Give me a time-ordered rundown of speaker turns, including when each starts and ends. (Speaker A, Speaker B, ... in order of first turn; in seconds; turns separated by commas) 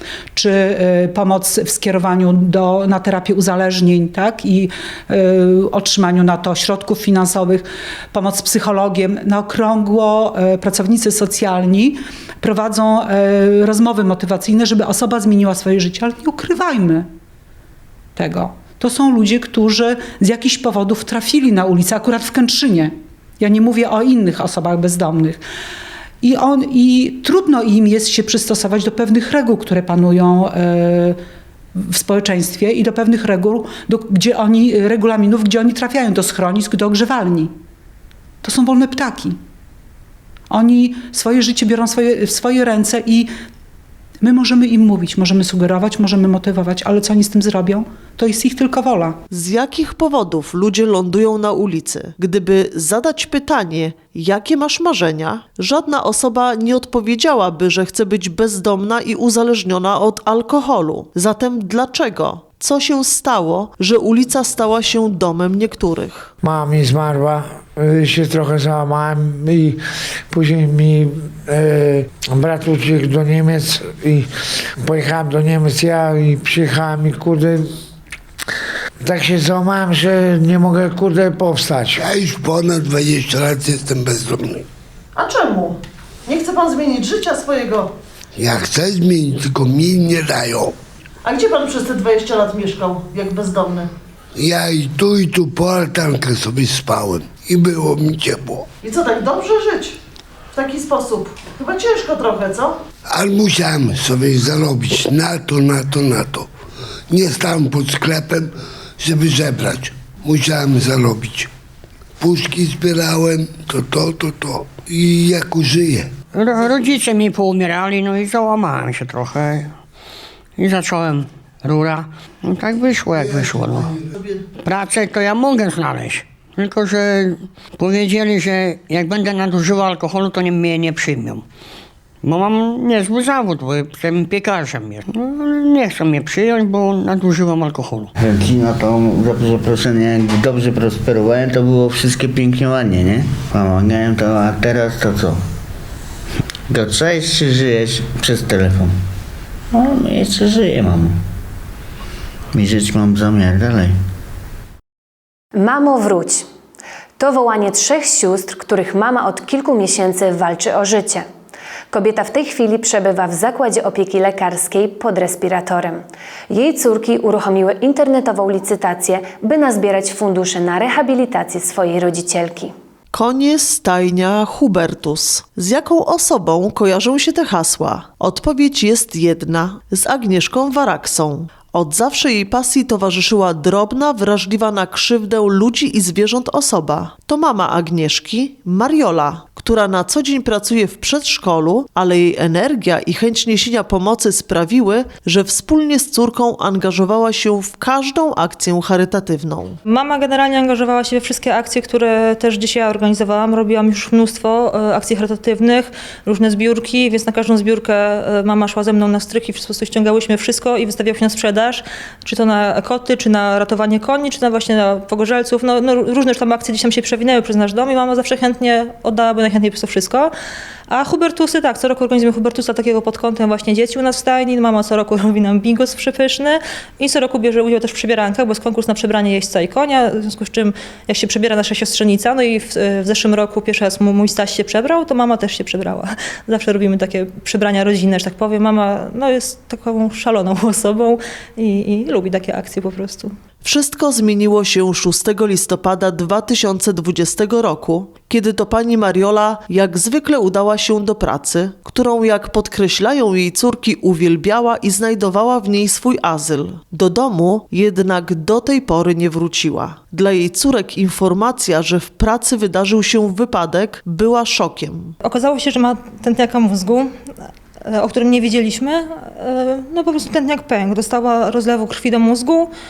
Speaker A: 0.3-17.1, Speaker A: 18.1-25.4, Speaker A: 26.2-31.2, Speaker A: 31.7-37.5, Speaker A: 38.4-39.4, Speaker A: 40.5-43.3, Speaker A: 44.2-49.2, Speaker B: 49.3-66.3, Speaker C: 66.4-74.3, Speaker C: 74.8-77.7, Speaker C: 79.0-82.0, Speaker D: 82.0-84.6, Speaker B: 85.2-87.9, Speaker D: 88.3-90.7, Speaker B: 91.2-93.9, Speaker D: 94.3-98.7, Speaker B: 98.8-100.0, Speaker B: 100.5-102.8, Speaker D: 103.1-106.5, Speaker D: 107.1-111.5, Speaker D: 112.2-116.1, Speaker E: 116.3-119.7, Speaker E: 120.6-123.9, Speaker B: 124.1-124.4, Speaker E: 124.6-131.4, Speaker E: 132.2-138.1, Speaker F: 138.2-145.4, Speaker F: 146.7-148.9, Speaker F: 149.7-151.2, Speaker F: 152.5-153.9, Speaker G: 155.5-156.4, Speaker G: 157.2-161.2, Speaker G: 161.9-172.7, Speaker B: 173.1-199.8, Speaker H: 199.9-220.3, Speaker H: 220.9-243.3, Speaker B: 243.6-265.1, Speaker H: 265.2-267.2, Speaker H: 267.8-272.7